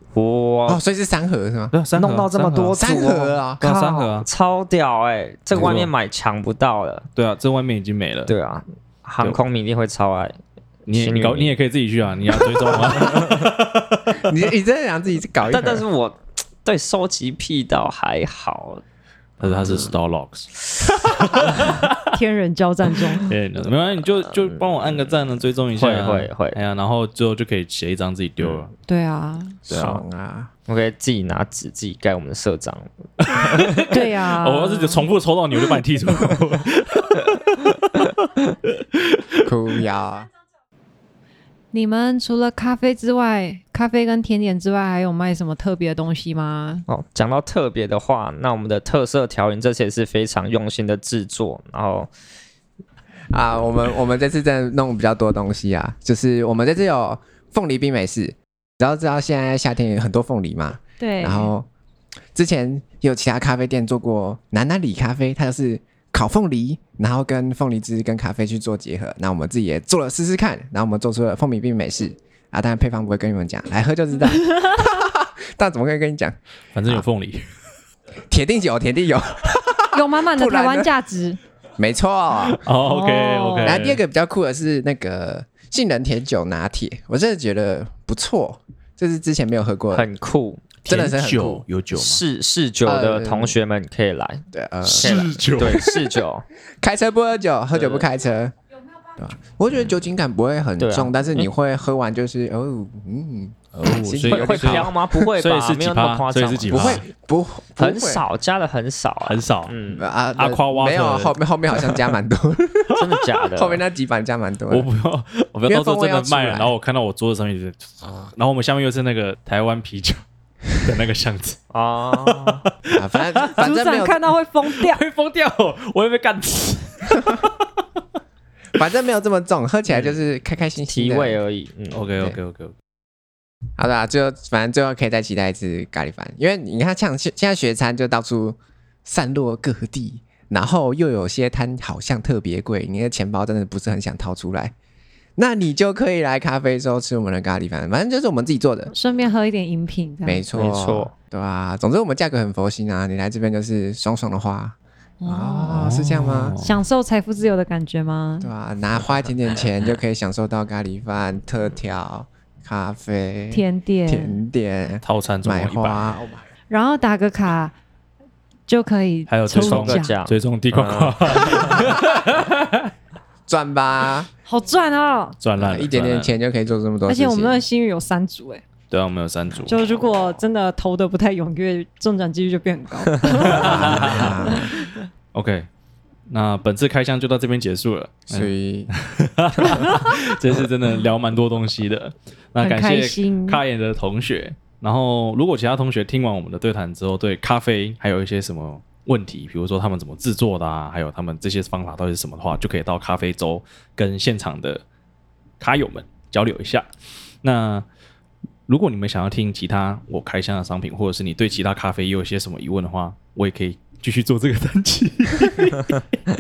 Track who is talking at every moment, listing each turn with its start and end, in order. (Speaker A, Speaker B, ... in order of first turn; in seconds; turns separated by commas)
Speaker A: 0.1-0.8, Speaker B: 0.7-1.8, Speaker C: 1.7-2.8, Speaker A: 2.0-7.1, Speaker B: 2.8-3.6, Speaker C: 3.6-4.3, Speaker C: 5.5-5.9, Speaker C: 7.2-8.3, Speaker A: 8.3-10.4, Speaker C: 10.9-14.2, Speaker A: 10.9-11.6, Speaker A: 12.4-13.3, Speaker B: 14.2-15.9, Speaker A: 15.5-18.8, Speaker C: 19.4-22.2, Speaker D: 22.1-23.3, Speaker C: 23.2-28.7, Speaker A: 24.4-24.7, Speaker A: 25.8-26.6, Speaker D: 28.9-29.6, Speaker B: 29.7-30.5, Speaker C: 29.7-30.0, Speaker A: 29.7-30.0, Speaker A: 30.7-33.8, Speaker C: 33.2-39.4, Speaker D: 33.9-35.1, Speaker B: 39.4-40.3, Speaker D: 41.7-46.9, Speaker A: 46.9-52.1, Speaker B: 53.3-61.7, Speaker D: 61.0-61.5, Speaker B: 62.4-76.4, Speaker C: 76.7-77.5, Speaker B: 78.3-80.9, Speaker D: 79.9-81.4, Speaker B: 81.8-82.6, Speaker C: 82.5-84.0, Speaker D: 82.8-83.8, Speaker B: 83.6-90.1, Speaker A: 89.9-90.7, Speaker C: 90.8-92.2, Speaker B: 90.9-91.7, Speaker A: 91.9-96.5, Speaker B: 92.8-93.6, Speaker B: 94.5-95.3, Speaker C: 94.9-96.2, Speaker B: 96.8-98.5, Speaker A: 97.7-98.1, Speaker B: 99.2-105.3, Speaker A: 100.8-101.5, Speaker C: 103.8-107.0, Speaker A: 104.2-107.0, Speaker B: 106.7-108.2, Speaker A: 107.8-110.0, Speaker C: 109.2-109.8, Speaker B: 109.9-114.9, Speaker C: 110.4-111.4, Speaker A: 112.9-113.8, Speaker C: 114.7-120.2, Speaker B: 115.7-116.8, Speaker C: 120.7-121.6, Speaker A: 121.7-122.7, Speaker C: 122.2-123.5, Speaker B: 122.9-124.2, Speaker D: 123.5-125.0, Speaker C: 124.7-127.5, Speaker B: 128.8-131.4, Speaker A: 130.9-132.1, Speaker C: 131.9-132.7, Speaker B: 133.8-144.7, Speaker B: 145.4-148.9, Speaker D: 148.9-150.4, Speaker B: 150.2-156.6, Speaker A: 150.5-151.1, Speaker D: 155.2-155.8, Speaker C: 155.7-156.8, Speaker D: 156.6-158.5, Speaker B: 158.4-166.4, Speaker D: 163.5-164.4, Speaker C: 165.0-166.2, Speaker D: 166.7-167.8, Speaker D: 168.7-170.2, Speaker C: 169.3-172.9, Speaker A: 169.6-172.0, Speaker B: 173.5-174.3, Speaker D: 174.5-175.4, Speaker C: 175.4-176.3, Speaker B: 175.6-177.6, Speaker D: 177.1-178.6, Speaker C: 178.9-179.8, Speaker D: 179.7-185.0, Speaker C: 183.4-184.6, Speaker B: 183.4-184.7, Speaker C: 185.3-185.7, Speaker C: 186.3-204.8, Speaker B: 188.3-188.9, Speaker D: 192.6-193.6, Speaker C: 205.6-206.9, Speaker C: 207.4-207.9, Speaker C: 208.7-216.1